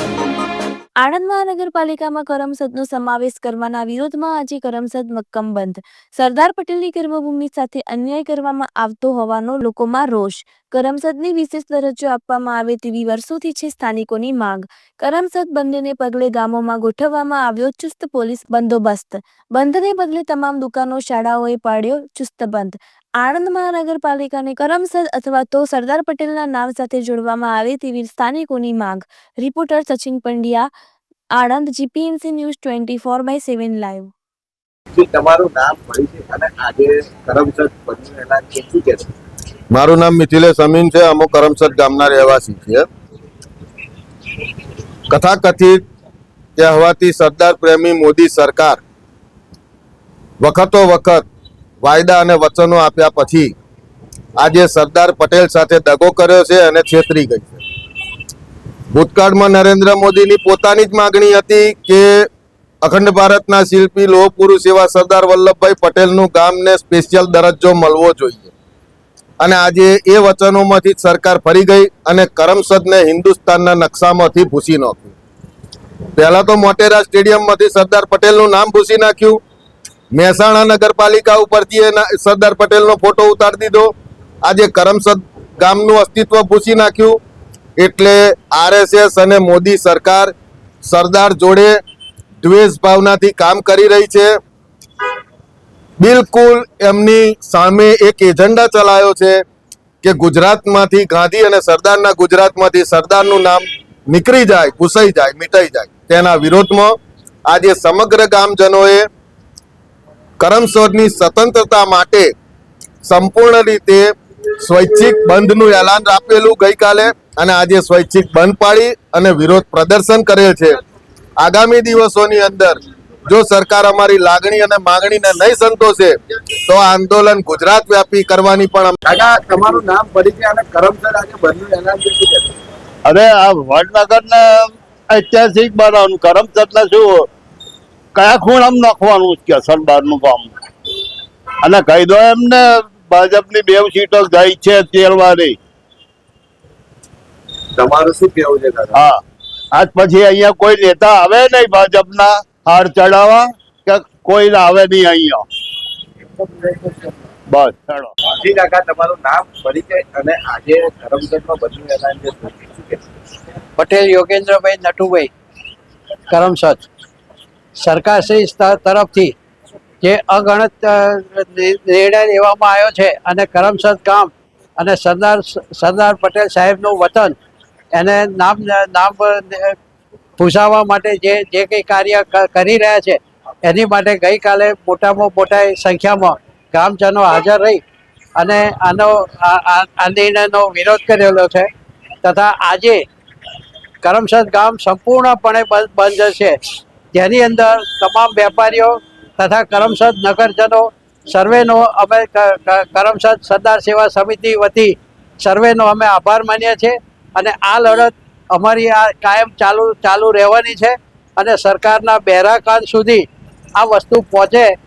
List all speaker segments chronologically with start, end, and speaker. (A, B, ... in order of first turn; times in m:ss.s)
0:01.0-0:30.7 A
0:31.3-0:34.1 A
0:34.9-0:39.1 B
0:39.7-0:42.9 C
0:45.1-0:45.8 C
0:46.6-0:48.8 C
0:50.4-0:51.2 C
0:51.8-0:53.6 C
0:54.4-0:57.6 C
0:58.9-1:02.3 C
1:02.8-1:08.5 C
1:09.4-1:15.1 C
1:16.2-1:19.4 C
1:20.1-1:23.9 C
1:24.4-1:27.2 C
1:27.8-1:30.3 C
1:30.8-1:31.8 C
1:32.4-1:34.3 C
1:36.0-1:39.4 C
1:40.0-1:47.0 C
1:47.5-1:49.1 C
1:50.4-1:52.3 C
1:53.0-1:54.1 C
1:54.6-2:00.8 C
2:01.4-2:06.2 C
2:06.7-2:09.0 C
2:09.1-2:12.6 B
2:13.0-2:17.3 D
2:18.2-2:20.5 D
2:21.6-2:25.6 D
2:27.7-2:29.0 B
2:28.9-2:29.2 D
2:29.7-2:35.4 D
2:36.4-2:37.2 B
2:37.5-2:38.1 D
2:38.3-2:43.1 B
2:43.8-2:45.3 E
2:46.3-2:46.9 E
2:47.8-2:49.3 E
2:50.0-2:57.4 E
2:57.9-2:59.8 E
3:00.4-3:07.8 E
3:08.4-3:11.7 E
3:12.2-3:13.0 E
3:14.0-3:16.6 E
3:17.1-3:33.3 E
3:33.8-3:34.7 E